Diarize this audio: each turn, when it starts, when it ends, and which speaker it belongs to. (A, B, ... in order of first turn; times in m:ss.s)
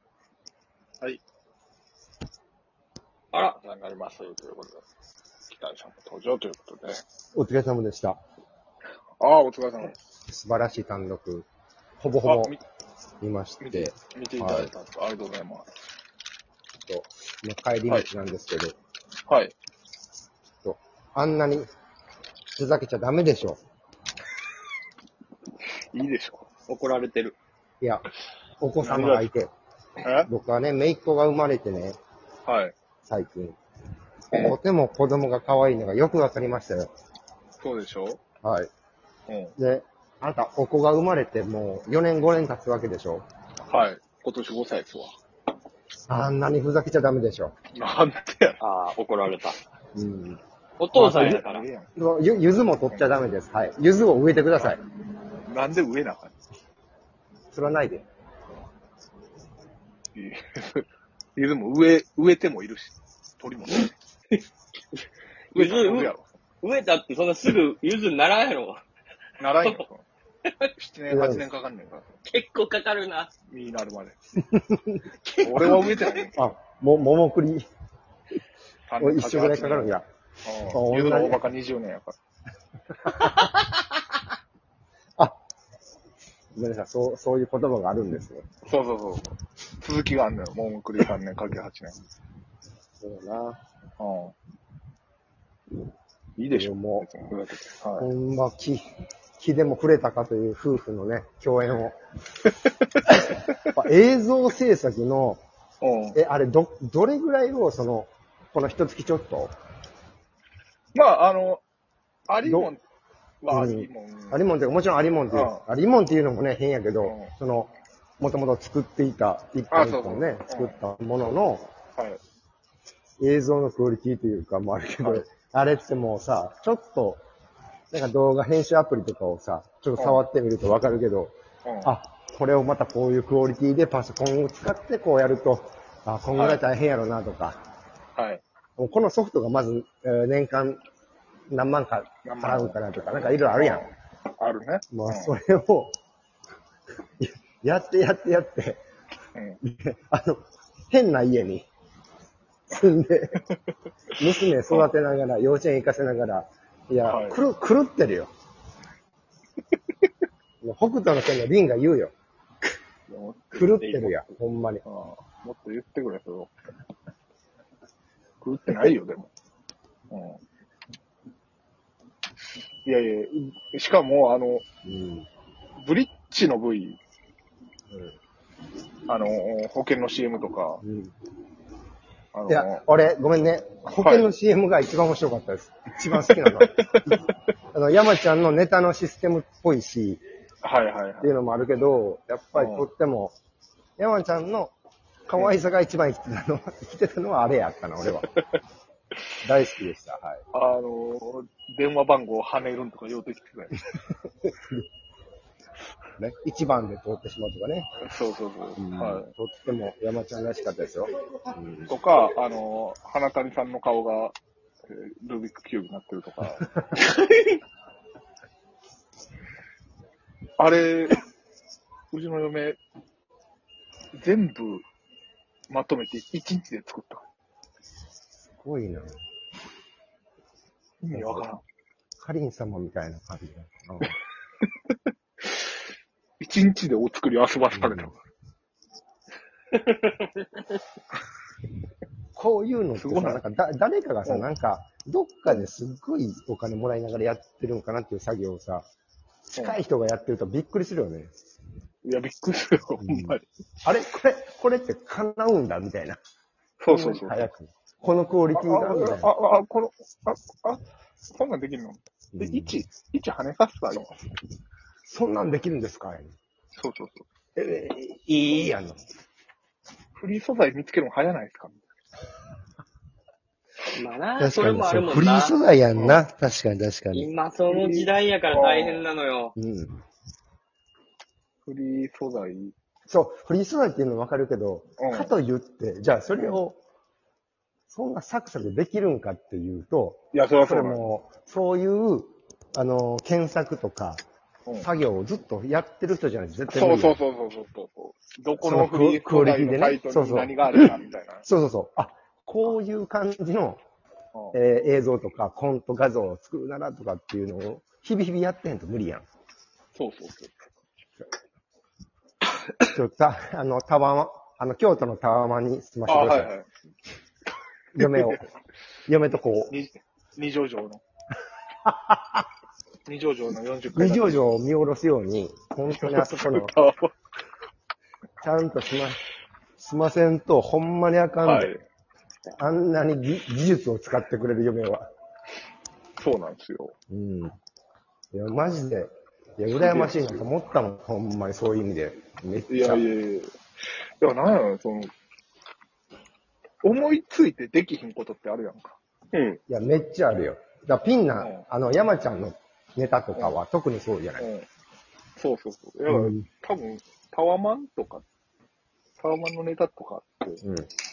0:03.3-0:03.6 A
0:03.6-0:04.8 B
0:05.5-0:07.0 B
0:07.4-0:08.2 C
0:09.2-0:09.9 B
0:10.3-0:11.5 C
0:12.0-0:12.6 C
0:12.2-0:12.6 B
0:13.2-0:14.7 C
0:13.6-0:15.7 B
0:16.9-0:18.8 C
0:19.3-0:19.5 B
0:20.6-0:21.7 C
0:22.5-0:23.6 C
0:25.9-0:26.5 B
0:26.7-0:27.4 A
0:28.6-0:29.5 C
0:28.8-0:29.3 B
0:30.0-0:30.3 B
0:30.3-0:32.0 C
0:32.4-0:32.7 B
0:33.0-0:33.6 C
0:34.3-0:36.9 C
0:37.6-0:38.2 B
0:38.4-0:38.7 C
0:39.3-0:39.5 B
0:39.6-0:43.2 C
0:43.7-0:45.1 B
0:46.1-0:47.5 C
0:47.7-0:48.6 B
0:48.6-0:49.6 A
0:49.9-0:50.4 C
0:50.8-0:51.6 A
0:50.9-0:51.4 C
0:50.9-0:51.9 B
0:51.9-0:54.8 C
0:55.5-0:56.3 B
0:57.5-0:58.0 C
1:00.1-1:00.8 B
1:01.4-1:03.9 B
1:05.5-1:08.8 A
1:05.5-1:06.3 B
1:09.4-1:10.0 B
1:10.8-1:12.2 B
1:11.1-1:11.4 C
1:12.2-1:13.3 A
1:13.5-1:14.2 B
1:14.4-1:15.0 C
1:15.2-1:16.1 A
1:15.4-1:16.5 B
1:15.6-1:17.6 C
1:18.9-1:22.2 B
1:19.0-1:20.1 C
1:20.7-1:21.4 C
1:23.0-1:23.4 C
1:26.5-1:28.4 C
1:28.6-1:32.0 B
1:33.0-1:33.6 C
1:34.0-1:34.3 B
1:36.4-1:38.1 B
1:36.5-1:37.1 C
1:38.0-1:38.8 C
1:39.4-1:42.0 C
1:43.1-1:45.4 C
1:45.8-1:46.2 B
1:46.1-1:49.5 C
1:50.9-1:51.6 B
1:52.3-1:52.8 B
1:52.4-1:52.7 C
1:53.4-1:54.4 B
1:53.5-2:01.7 C
1:55.3-1:55.6 B
1:57.0-1:57.3 B
1:59.7-2:00.8 B
2:03.2-2:07.2 C
2:05.0-2:05.3 B
2:07.9-2:11.3 C
2:10.0-2:10.2 B
2:11.6-2:11.9 B
2:11.8-2:17.6 C
2:16.3-2:16.6 B
2:18.2-2:18.4 B
2:18.8-2:20.8 C
2:21.5-2:23.8 C
2:22.2-2:25.3 B
2:24.9-2:25.9 C
2:27.2-2:28.8 C
2:29.6-2:31.6 C
2:32.7-2:33.4 C
2:34.2-2:38.3 C
2:37.0-2:37.4 B
2:40.6-2:42.1 C
2:43.1-2:46.5 B
2:43.5-2:44.8 C
2:48.4-2:49.3 B
2:50.1-2:50.4 B
2:52.8-2:54.6 B
2:54.8-2:55.3 C
2:55.8-2:57.0 B
2:59.1-3:00.8 B
3:00.8-3:01.1 C
3:02.3-3:02.8 B
3:02.5-3:07.1 C
3:03.9-3:04.3 B
3:06.6-3:07.2 B
3:07.7-3:10.2 C
3:10.6-3:11.3 B
3:11.2-3:13.4 C
3:12.5-3:12.9 B
3:14.0-3:14.7 C
3:15.3-3:18.3 C
3:19.4-3:20.4 C
3:20.5-3:23.8 B
3:24.4-3:24.9 C
3:26.2-3:27.9 C
3:28.0-3:29.3 B
3:28.8-3:31.9 C
3:31.9-3:34.4 B
3:34.9-3:36.7 B
3:37.0-3:37.6 A
3:40.6-3:41.2 B
3:42.1-3:42.8 B
3:44.2-3:44.8 B
3:45.7-3:47.2 B
3:48.6-3:49.2 C
3:51.0-3:51.6 B
3:51.1-3:51.5 C
3:52.2-3:54.1 C
3:56.4-3:58.2 B
3:57.7-3:58.1 C
3:59.8-4:00.4 A
4:02.3-4:08.9 C
4:03.0-4:03.4 B
4:09.6-4:11.3 C
4:12.0-4:13.4 B
4:13.0-4:16.2 C
4:16.8-4:17.5 B
4:16.9-4:19.3 C
4:18.5-4:24.2 B
4:22.3-4:22.8 C
4:25.0-4:26.3 C
4:26.8-4:27.3 B
4:27.6-4:29.0 C
4:30.2-4:31.8 B
4:33.9-4:35.6 A
4:34.4-4:37.3 C
4:35.9-4:36.2 B
4:37.1-4:39.5 A
4:37.7-4:39.1 B
4:39.6-4:40.0 C
4:41.6-4:42.7 B
4:43.1-4:46.8 C
4:45.0-4:45.3 B
4:46.3-4:46.6 B
4:47.9-4:54.2 C
4:50.3-4:51.0 B
4:54.8-4:57.2 C
4:56.7-5:01.5 B
4:58.6-5:00.9 C
5:01.4-5:03.8 C
5:04.3-5:04.6 B
5:04.5-5:09.2 C
5:09.9-5:10.5 B
5:12.9-5:16.5 C
5:16.1-5:16.7 B
5:17.9-5:18.4 C
5:18.0-5:18.4 B
5:19.1-5:19.7 C
5:19.7-5:21.0 B
5:21.8-5:22.4 C
5:23.1-5:24.4 B
5:23.9-5:26.7 C
5:26.0-5:27.1 B
5:28.4-5:29.2 C
5:29.8-5:31.7 C
5:31.4-5:31.8 B
5:32.6-5:35.1 C
5:36.2-5:36.9 B
5:37.1-5:37.6 C
5:38.3-5:43.0 C
5:39.7-5:40.4 B
5:42.7-5:43.5 B
5:44.2-5:45.1 B
5:46.8-5:49.6 B
5:49.7-5:54.5 C
5:51.4-5:51.6 B
5:54.4-5:54.7 B
5:55.4-5:58.2 B
5:56.1-5:56.4 C
5:59.2-6:00.6 B
6:00.6-6:00.9 C